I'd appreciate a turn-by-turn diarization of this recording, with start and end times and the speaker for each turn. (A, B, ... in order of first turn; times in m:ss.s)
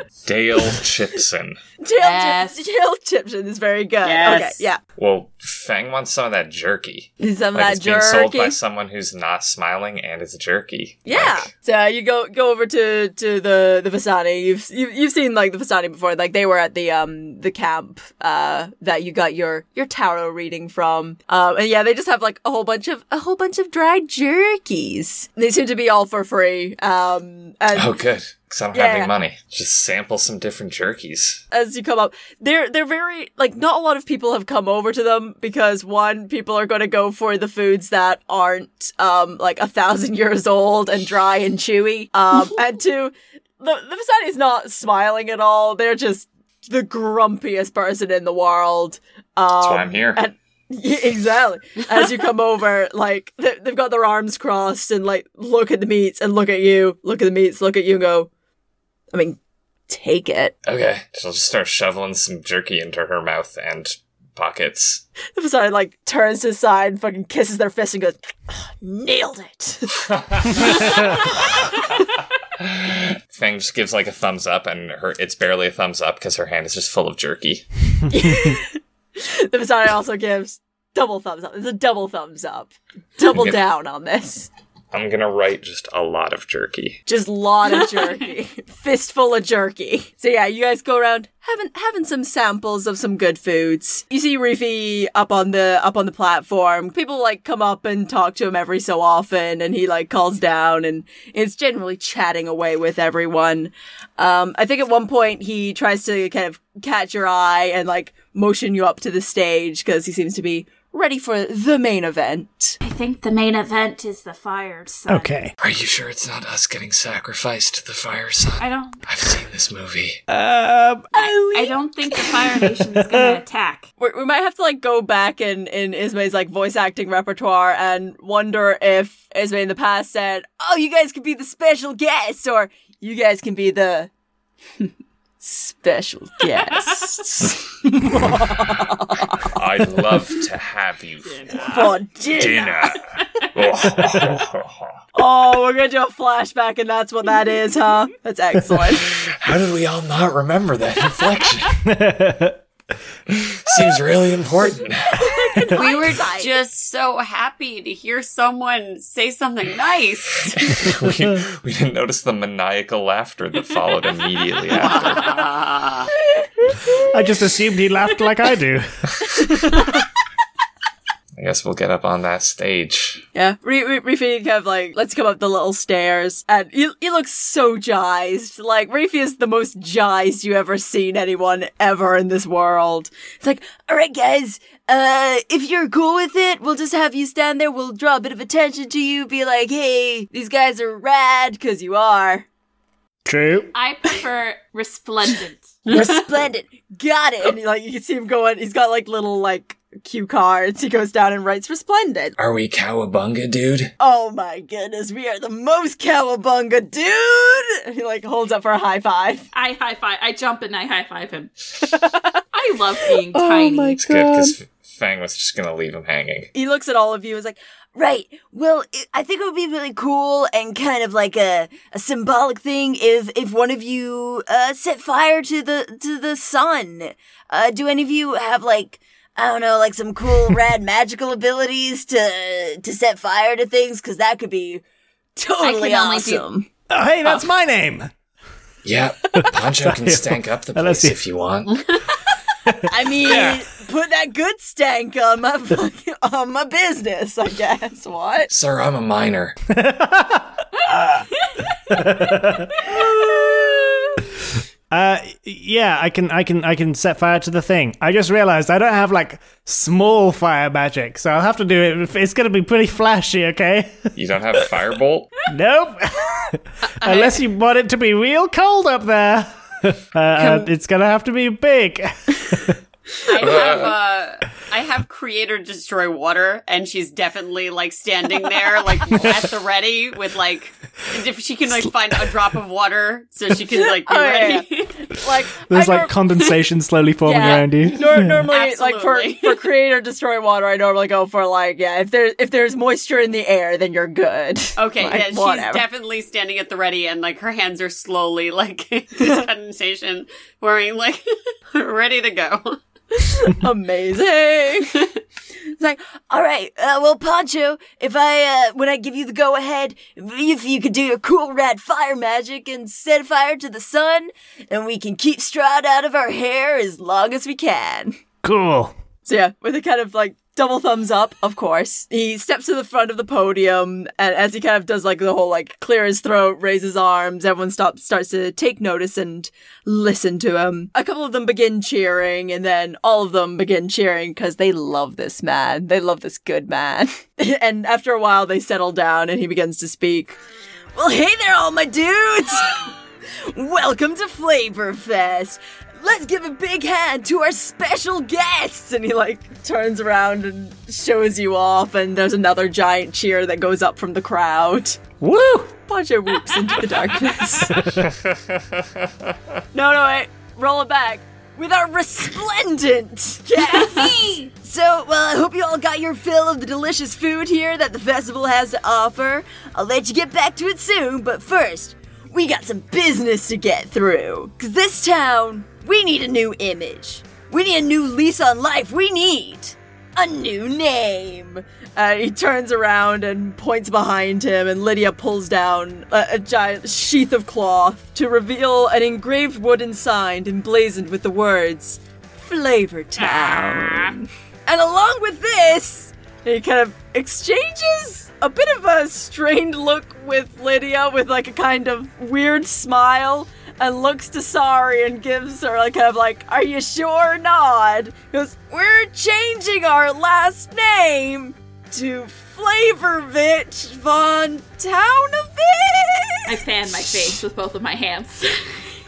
0:00.2-0:01.6 A
0:01.8-0:04.8 B
0:02.0-0:02.6 C
0:04.0-0:04.6 D
0:05.0-0:11.5 A
0:07.2-0:08.6 B
0:11.0-0:27.9 B
0:27.7-0:31.4 A
0:28.7-0:29.1 B
0:31.5-0:58.3 B
0:49.6-0:50.2 A
0:59.1-1:00.5 B
1:00.6-1:05.0 A
1:05.4-1:10.0 B
1:10.1-1:10.8 A
1:10.5-1:11.0 B
1:12.6-1:17.6 A
1:18.1-1:24.5 B
1:23.3-1:23.6 A
1:24.9-1:27.0 A
1:27.0-1:52.8 B
1:52.8-1:55.4 C
1:55.1-1:55.5 E
1:55.6-2:00.2 A
1:58.6-1:59.0 C
2:00.3-2:01.1 E
2:01.1-2:02.2 B
2:01.2-2:03.9 C
2:02.3-2:03.3 E
2:04.0-2:14.1 B
2:15.4-2:19.5 B
2:16.6-2:17.1 C
2:19.4-2:21.6 A
2:21.3-2:21.9 C
2:21.5-2:22.9 B
2:22.4-2:25.0 A
2:23.1-2:23.5 C
2:25.1-2:29.1 B
2:29.0-2:31.8 A
2:31.8-2:32.6 E
2:33.3-2:35.3 A
2:35.2-2:36.5 B
2:35.7-2:40.9 D
2:40.7-2:45.4 A
2:44.8-2:46.1 D
2:46.6-2:47.1 B
2:47.0-2:49.9 E
2:49.5-2:49.8 B
2:51.3-2:53.2 A
2:53.3-3:12.4 B
3:13.2-3:13.7 E
3:13.7-3:15.8 C
3:15.9-3:22.4 B
3:22.4-3:23.9 A
3:24.0-3:29.4 B
3:29.5-3:31.5 C
3:31.8-3:32.4 B
3:32.5-3:34.0 C
3:33.2-3:34.6 B
3:34.0-3:36.5 A
3:36.5-3:54.8 B
3:55.3-3:56.7 B
3:55.6-3:56.4 C
3:56.9-3:58.1 E
3:58.8-4:01.8 A
3:59.4-4:01.1 E
4:01.7-4:02.0 D
4:02.6-4:03.6 E
4:02.8-4:08.5 B
4:03.2-4:03.6 A
4:08.5-4:09.6 A
4:09.7-4:11.2 E
4:10.9-4:11.8 C
4:11.9-4:12.7 E
4:12.8-4:13.9 C
4:12.9-4:14.1 B
4:14.9-4:24.7 E
4:24.2-4:25.3 A
4:25.5-4:32.8 E
4:27.0-4:27.4 D
4:30.3-4:30.7 D
4:33.2-4:44.9 D
4:33.4-4:34.0 A
4:43.7-4:46.3 B
4:45.6-4:48.4 E
4:47.2-4:55.8 B
4:47.9-4:49.6 D
4:54.8-5:02.8 D
5:03.1-5:05.1 B
5:05.7-5:18.2 B
5:18.4-5:18.9 E
5:19.2-5:40.4 B
5:40.9-5:55.0 B
5:55.2-5:55.7 E
5:55.8-5:57.9 B
5:58.0-5:59.4 A
5:59.7-6:57.3 B
6:03.8-6:04.4 C
6:33.2-6:34.2 C
6:56.5-6:58.8 C